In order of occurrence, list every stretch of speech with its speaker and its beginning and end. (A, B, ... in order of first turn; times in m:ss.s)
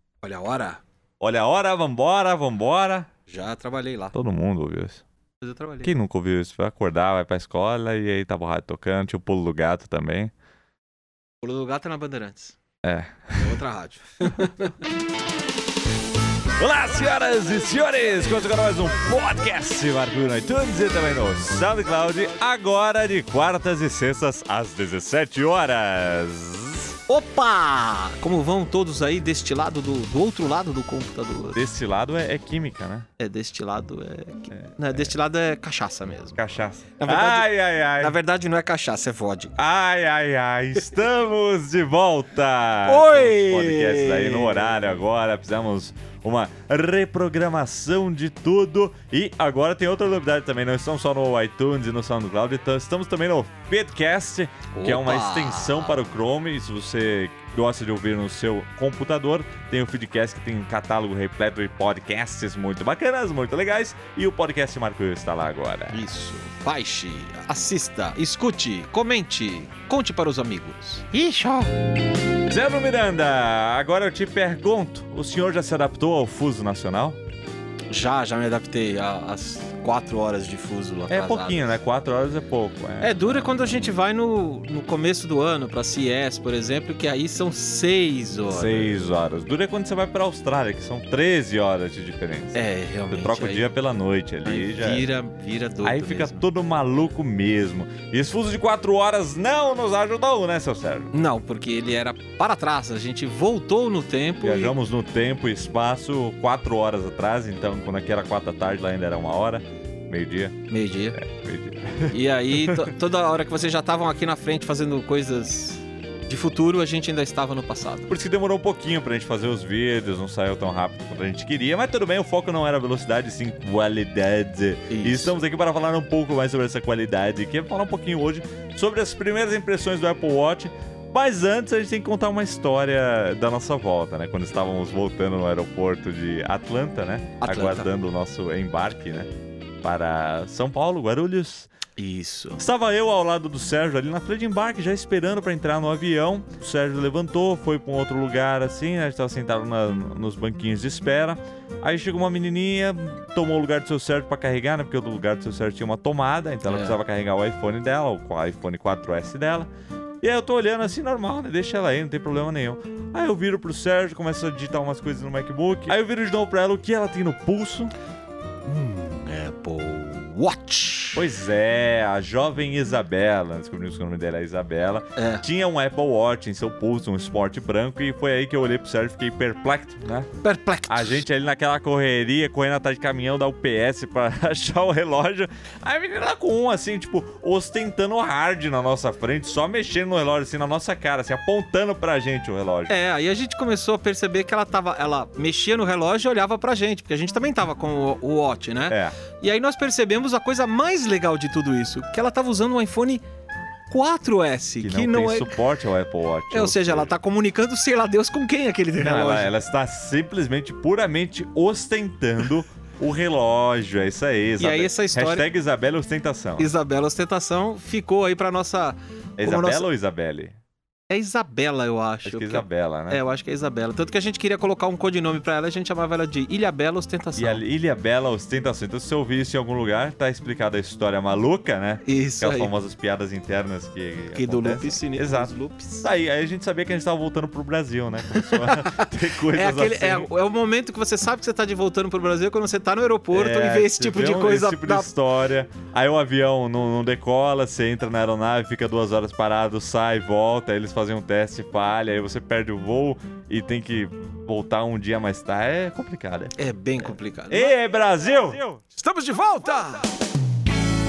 0:00.2-0:00.8 A
0:01.2-0:03.1 B
0:03.3-0:04.1 A
0:04.1-0:05.0 B
0:05.4-0:05.9 A
0:05.8-0:10.3 B
0:11.4-0:12.6 A
0:12.8-0:13.6 B
0:13.4-0:14.8 A
0:16.6-0:27.0 B
0:27.1-0:31.6 A
0:31.5-0:33.1 B
0:33.2-0:36.4 A
0:34.5-0:35.1 B
0:36.4-0:38.2 B
0:37.0-0:39.6 A
0:39.6-1:06.1 B
0:42.8-0:44.9 A
0:54.7-0:56.0 A
1:05.9-1:11.7 A
1:12.5-1:17.2 B
1:17.9-1:21.8 A
1:21.1-1:23.9 B
1:23.0-1:29.0 A
1:28.5-1:35.1 B
1:32.5-1:33.7 A
1:34.4-1:36.4 A
1:35.8-1:41.1 B
1:41.1-1:44.8 A
1:44.4-1:50.6 B
1:50.7-1:51.2 A
1:51.1-1:52.9 B
1:52.1-1:58.1 A
1:58.1-2:19.3 B
2:04.9-2:05.4 A
2:17.4-2:17.9 A
2:19.8-2:21.7 B
2:22.0-2:22.6 A
2:22.6-2:39.7 B
2:36.7-2:37.0 A
2:40.2-2:47.9 B
2:48.6-2:51.2 A
2:51.1-3:00.3 B
2:55.2-2:55.4 A
3:00.4-3:01.2 A
3:00.9-3:12.9 B
3:12.9-3:23.2 A
3:18.9-3:19.2 B
3:23.9-3:25.6 A
3:24.8-3:27.1 B
3:26.5-3:29.5 A
3:29.0-3:36.7 B
3:34.6-3:35.5 A
3:36.6-3:39.9 A
3:39.4-3:40.6 B
3:41.1-3:47.6 A
3:42.2-3:43.2 B
3:47.4-4:00.3 B
3:52.0-3:52.7 A
3:54.3-3:56.1 A
3:58.3-4:05.1 A
4:03.3-4:18.7 B
4:16.6-4:17.8 A
4:18.7-4:20.1 A